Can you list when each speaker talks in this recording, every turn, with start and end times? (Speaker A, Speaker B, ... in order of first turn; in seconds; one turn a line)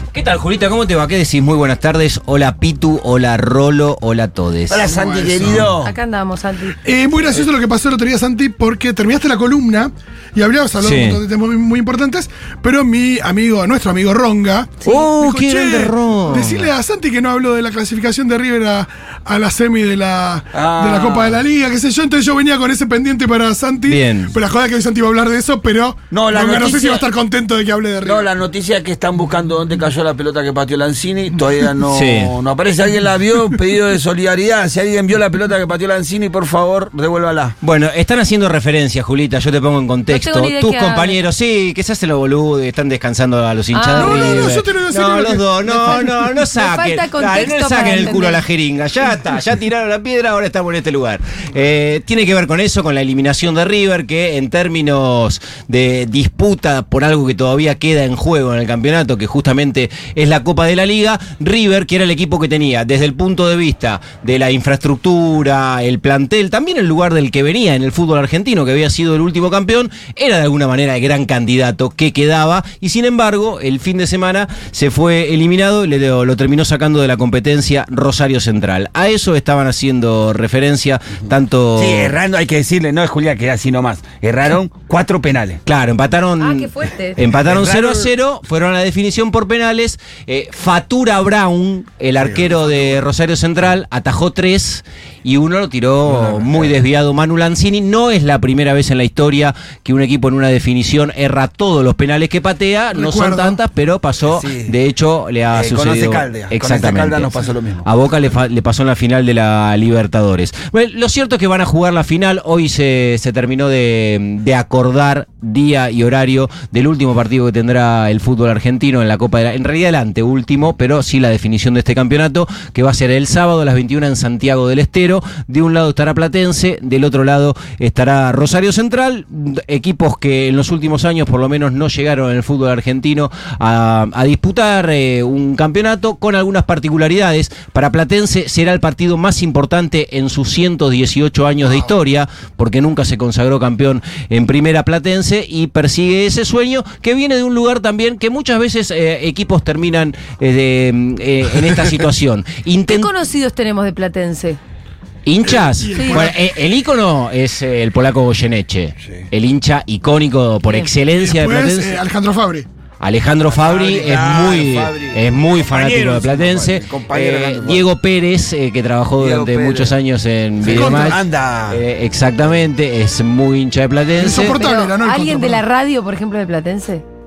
Speaker A: 0.1-4.9
Speaker B: 4.7-5.9
Speaker C: 4.8-5.7
Speaker D: 5.8-6.8
Speaker C: 6.8-28.3
Speaker A: 10.8-11.2
Speaker A: 14.8-16.7
Speaker B: 20.5-21.4
Speaker A: 23.9-24.3
Speaker B: 26.1-27.1
Speaker B: 28.0-37.6
Speaker A: 31.9-32.3
Speaker A: 37.6-82.1
Speaker D: 40.1-41.2
Speaker D: 43.7-44.5
Speaker C: 44.0-46.4
Speaker D: 46.5-48.4
Speaker B: 81.8-85.6
Speaker A: 85.7-153.1
Speaker D: 86.4-87.2
Speaker B: 87.2-88.1
Speaker B: 92.2-93.0
Speaker B: 96.1-96.8
Speaker C: 102.9-103.6
Speaker B: 104.3-104.7
Speaker B: 105.5-107.9
Speaker D: 152.9-154.6
Speaker A: 155.2-162.0
Speaker C: 155.4-156.4
Speaker D: 155.9-156.2
Speaker C: 161.1-162.7
Speaker A: 163.0-174.6
Speaker B: 163.5-167.8
Speaker B: 169.2-169.9
Speaker B: 170.6-171.8
Speaker C: 170.7-171.2
Speaker C: 174.2-175.6
Speaker D: 174.5-177.0